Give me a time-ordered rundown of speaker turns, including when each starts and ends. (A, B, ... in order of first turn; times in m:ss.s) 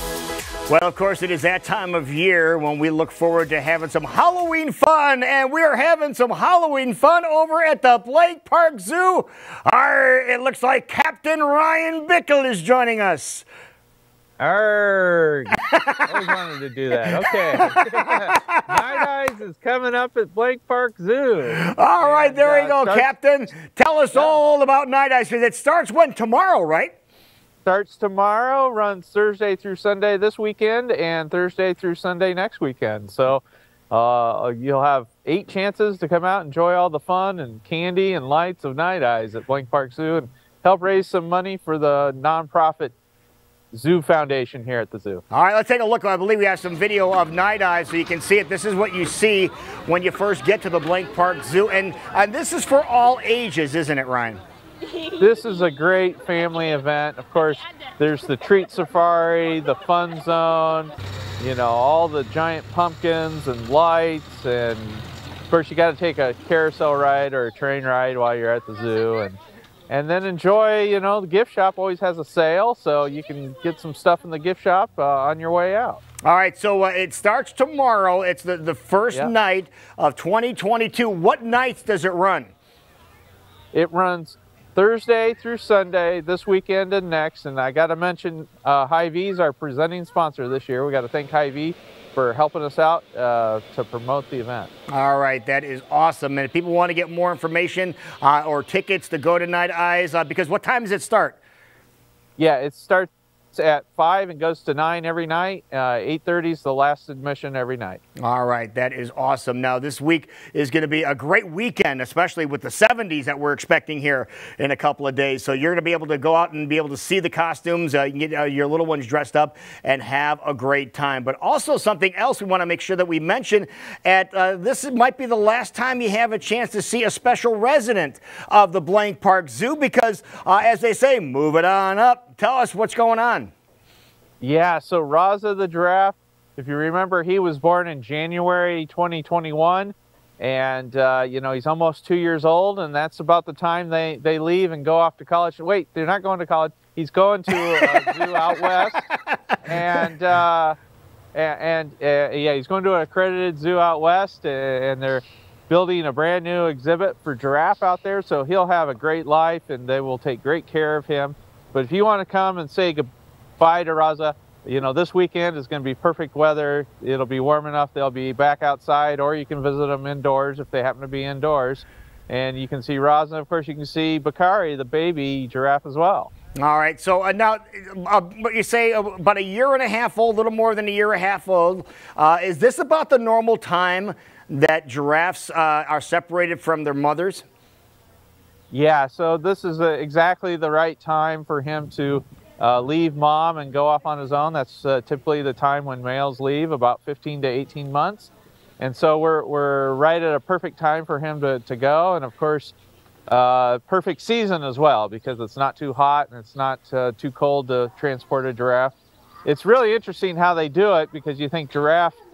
0:00.7-0:13.5 A
0:14.4-0:23.1 B
0:15.7-0:16.3 A
0:17.0-0:19.0 A
0:21.5-0:26.9 A
0:24.1-0:24.4 B
0:27.6-0:42.9 B
0:43.7-0:45.2 B
0:45.3-0:54.4 A
0:55.2-1:09.4 B
1:09.9-1:16.0 B
1:16.2-1:22.5 A
1:23.7-1:34.7 B
1:34.9-1:41.4 A
1:42.4-1:48.0 B
1:48.2-2:13.5 A
2:14.4-2:29.1 B
2:27.5-2:30.1 A
2:29.6-2:30.8 B
2:31.3-2:56.3 B
2:56.6-3:07.5 A
3:08.7-3:22.8 B
3:23.3-3:32.2 B